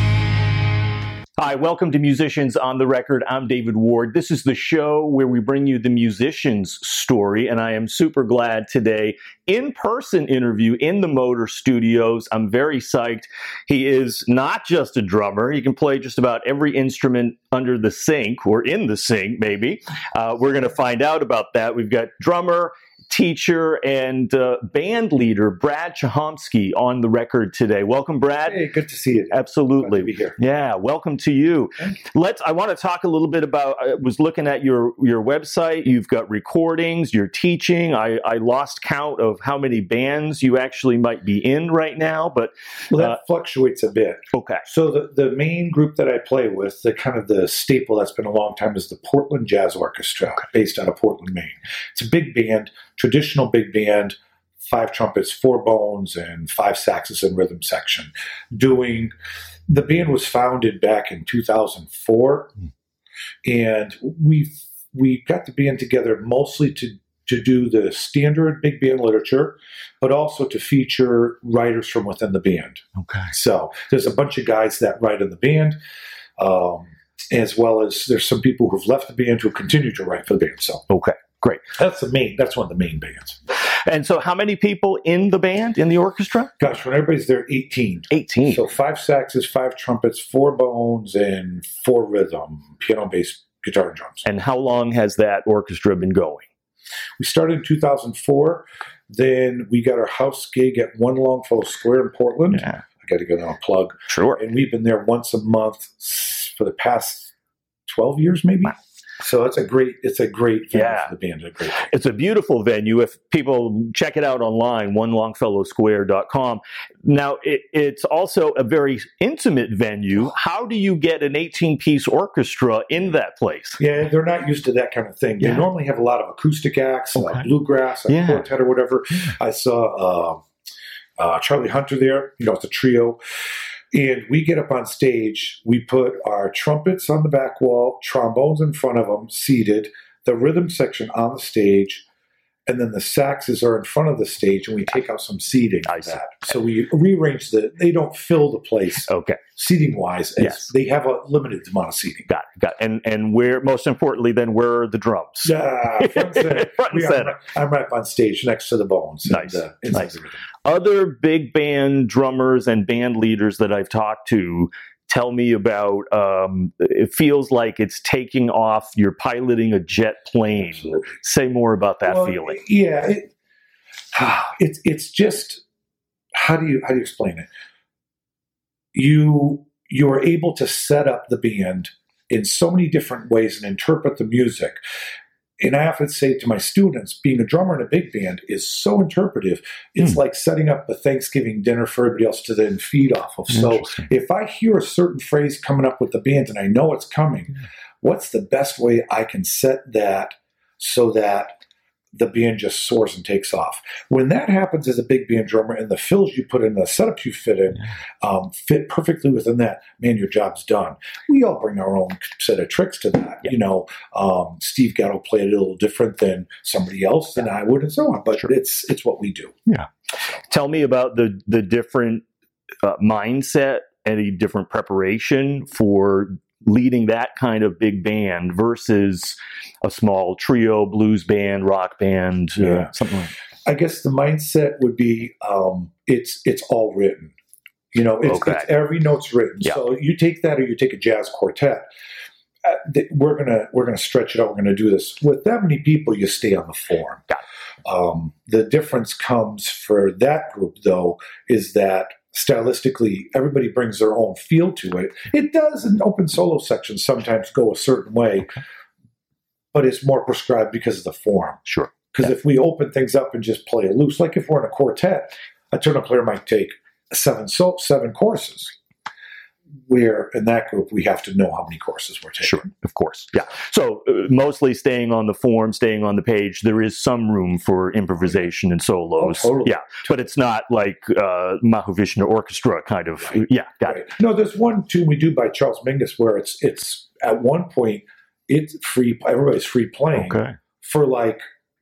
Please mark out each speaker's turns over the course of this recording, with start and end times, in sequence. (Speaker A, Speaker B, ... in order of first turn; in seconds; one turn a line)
Speaker A: 1.4-28.6
Speaker B: 28.4-30.4
Speaker A: 29.3-43.2
Speaker B: 42.9-59.1
Speaker A: 44.3-44.6
Speaker B: 59.7-62.5
Speaker B: 63.5-75.8
Speaker A: 73.0-73.3
Speaker B: 76.4-80.9
Speaker A: 80.9-81.7
Speaker B: 81.7-83.4
Speaker A: 83.6-86.5
Speaker B: 86.6-94.2
Speaker A: 88.1-88.6
Speaker A: 94.2-96.5
Speaker B: 97.2-107.3
Speaker A: 102.5-102.8
Speaker A: 104.1-104.4
Speaker B: 107.9-111.9
Speaker A: 110.7-111.1
Speaker A: 111.8-123.8
Speaker B: 123.8-130.4
Speaker A: 125.4-125.7
Speaker A: 127.2-127.5
Speaker A: 128.1-128.5
Speaker B: 131.2-133.2
Speaker B: 133.9-142.0
Speaker B: 142.7-152.3
Speaker A: 145.9-146.2
Speaker A: 149.1-149.4
Speaker A: 150.4-150.7
Speaker A: 152.3-157.3
Speaker B: 155.4-160.4
Speaker A: 159.3-160.1
Speaker A: 160.6-172.6
Speaker B: 170.7-171.0
Speaker B: 172.1-173.3
Speaker B: 174.1-175.6
Speaker B: 176.3-177.5
Speaker B: 178.9-184.8
Speaker B: 185.6-201.6
Speaker A: 193.5-194.1
Speaker B: 202.1-219.6
Speaker A: 220.5-222.2
Speaker A: 222.8-233.3
Speaker B: 232.6-232.9
Speaker B: 233.7-237.3
Speaker B: 237.9-241.8
Speaker A: 238.2-238.7
Speaker B: 242.6-247.3
Speaker B: 247.8-258.6
Speaker B: 259.7-268.8
Speaker A: 261.7-262.1
Speaker B: 269.9-272.7
Speaker A: 272.4-284.1
Speaker B: 279.2-279.9
Speaker B: 283.2-291.4
Speaker A: 290.1-290.6